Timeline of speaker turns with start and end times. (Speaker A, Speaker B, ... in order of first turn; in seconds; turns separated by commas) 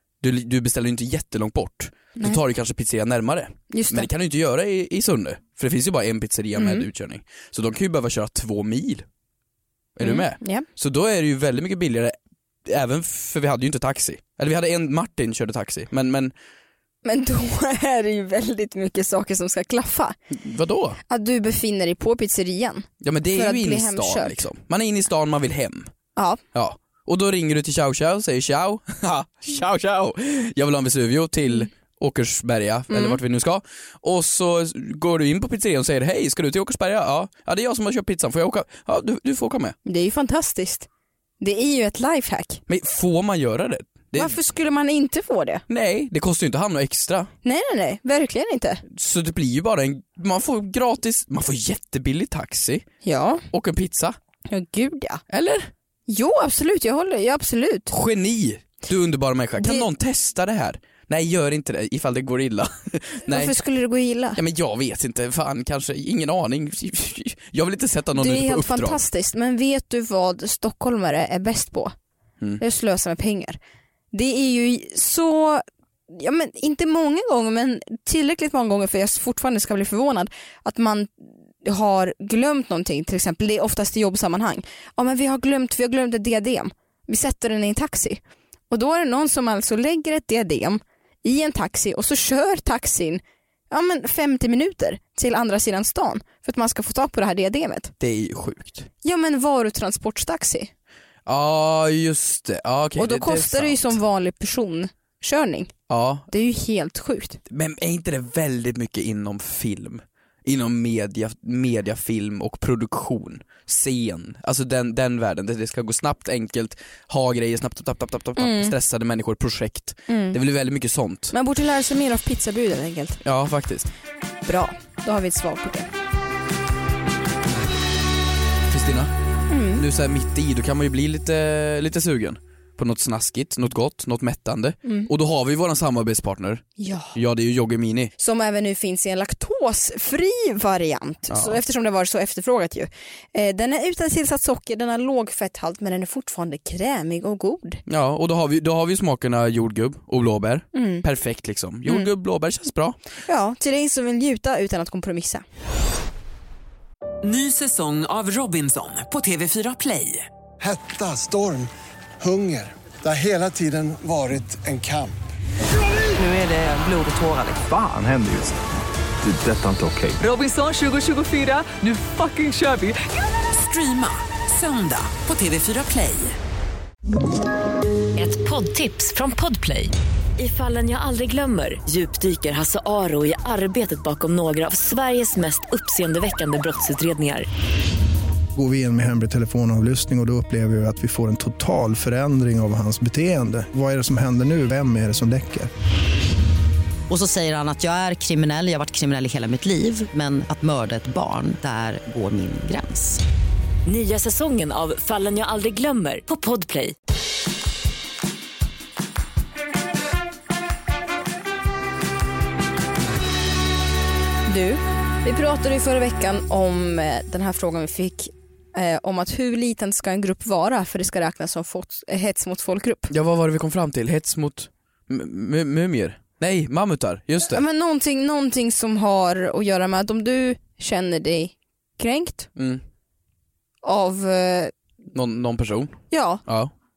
Speaker A: 0.2-9.1, Speaker B: 3.7-4.1, Speaker B: 6.5-6.8, Speaker A: 9.9-16.3, Speaker B: 10.0-10.7, Speaker B: 17.0-20.1, Speaker A: 20.3-21.0, Speaker B: 21.1-24.4, Speaker A: 23.0-25.9, Speaker B: 26.1-26.4, Speaker A: 26.5-39.8, Speaker B: 32.9-33.2, Speaker B: 39.8-40.9, Speaker B: 41.4-42.6, Speaker A: 42.7-44.4, Speaker B: 44.1-45.6, Speaker A: 45.7-47.3, Speaker B: 47.4-48.8, Speaker A: 48.9-52.9, Speaker B: 53.0-53.4, Speaker A: 53.5-54.2, Speaker B: 54.5-55.2, Speaker A: 55.3-55.7, Speaker B: 56.1-57.9, Speaker A: 57.9-63.5, Speaker B: 59.6-59.9, Speaker B: 63.3-64.4, Speaker A: 64.3-69.0, Speaker B: 68.2-71.9, Speaker B: 72.6-73.6, Speaker B: 74.1-97.9, Speaker A: 98.0-98.9, Speaker B: 99.0-100.7, Speaker A: 101.2-104.0, Speaker B: 103.0-105.7, Speaker A: 105.9-106.3, Speaker B: 106.3-107.4, Speaker A: 107.5-121.3, Speaker B: 118.4-118.7, Speaker B: 120.1-120.4, Speaker B: 121.3-123.2, Speaker A: 123.2-123.9, Speaker B: 124.5-125.9, Speaker A: 128.7-129.1, Speaker B: 129.5-129.8, Speaker A: 129.7-138.1, Speaker B: 134.8-135.1, Speaker B: 136.8-137.1, Speaker B: 138.2-147.8, Speaker A: 141.3-141.6, Speaker A: 147.9-153.0, Speaker B: 150.7-151.0, Speaker B: 153.2-155.4, Speaker C: 157.2-160.3, Speaker D: 160.6-161.7, Speaker D: 162.2-165.2, Speaker C: 166.2-167.6, Speaker E: 167.6-168.6, Speaker E: 169.2-170.2, Speaker C: 170.2-176.3, Speaker F: 178.1-187.5, Speaker G: 188.6-195.7, Speaker H: 197.1-203.2, Speaker F: 203.8-206.9, Speaker B: 214.5-223.1, Speaker A: 223.1-227.6, Speaker B: 227.4-232.5, Speaker A: 232.6-232.8, Speaker B: 233.8-234.7, Speaker A: 235.1-236.7, Speaker B: 236.1-236.4